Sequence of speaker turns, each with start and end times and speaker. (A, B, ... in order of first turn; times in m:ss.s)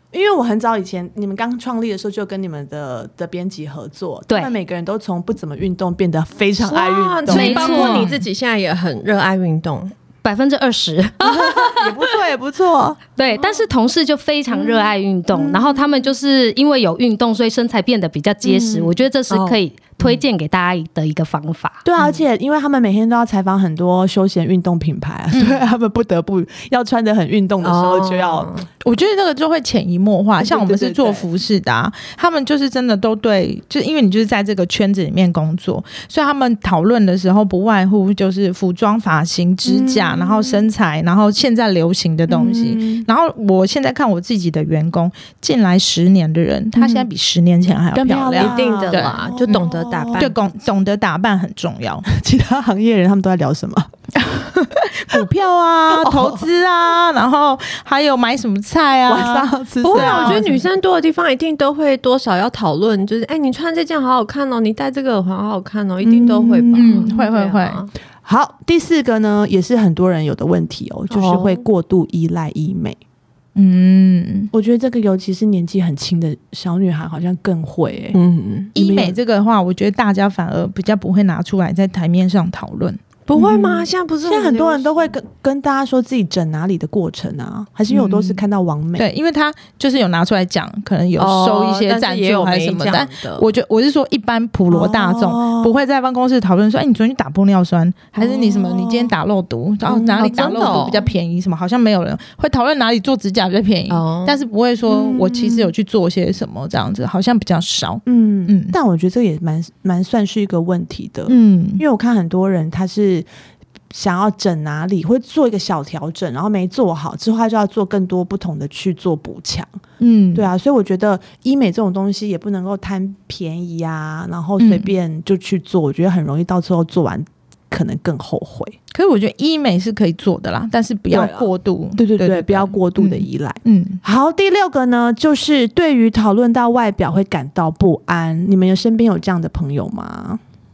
0:00.1-0:08.1 A
0:06.6-0:09.9 B
0:07.3-0:08.2 C
0:07.3-0:08.1 D
0:10.2-0:12.0 C
0:11.2-0:13.0 A
0:13.2-0:21.8 C
0:14.6-0:15.9 A
0:18.4-0:18.9 A
0:19.3-0:20.1 B
0:21.8-0:28.5 A
0:27.6-0:28.7 B
0:28.8-0:49.2 D
0:30.4-0:31.3 A
0:39.6-0:40.7 A
0:42.3-0:43.1 A
0:46.8-0:47.1 A
0:47.9-0:50.3 A
0:48.4-0:50.4 B
0:50.2-0:52.1 D
0:52.1-0:53.9 A
0:54.2-1:00.6 D
0:55.8-0:56.5 A
0:59.1-1:00.6 A
0:59.8-1:07.9 B
1:06.0-1:07.2 A
1:06.7-1:07.8 D
1:08.2-1:13.0 A
1:11.1-1:11.6 B
1:13.6-1:14.5 D
1:14.5-1:18.2 A
1:18.1-1:18.7 B
1:18.8-1:19.2 A
1:18.8-1:23.8 D
1:23.3-1:25.1 B
1:24.2-1:29.1 A
1:27.9-1:28.4 D
1:29.0-1:48.8 D
1:31.2-1:33.4 B
1:34.7-1:35.7 A
1:38.2-1:39.1 A
1:39.9-1:41.1 A
1:40.2-1:41.0 B
1:43.9-1:44.4 B
1:44.9-1:45.7 A
1:48.1-1:53.3 A
1:51.3-1:51.8 D
1:53.9-1:59.8 A
2:00.0-2:00.5 D
2:00.3-2:08.8 A
2:04.6-2:04.9 D
2:08.9-2:14.0 D
2:11.1-2:20.4 A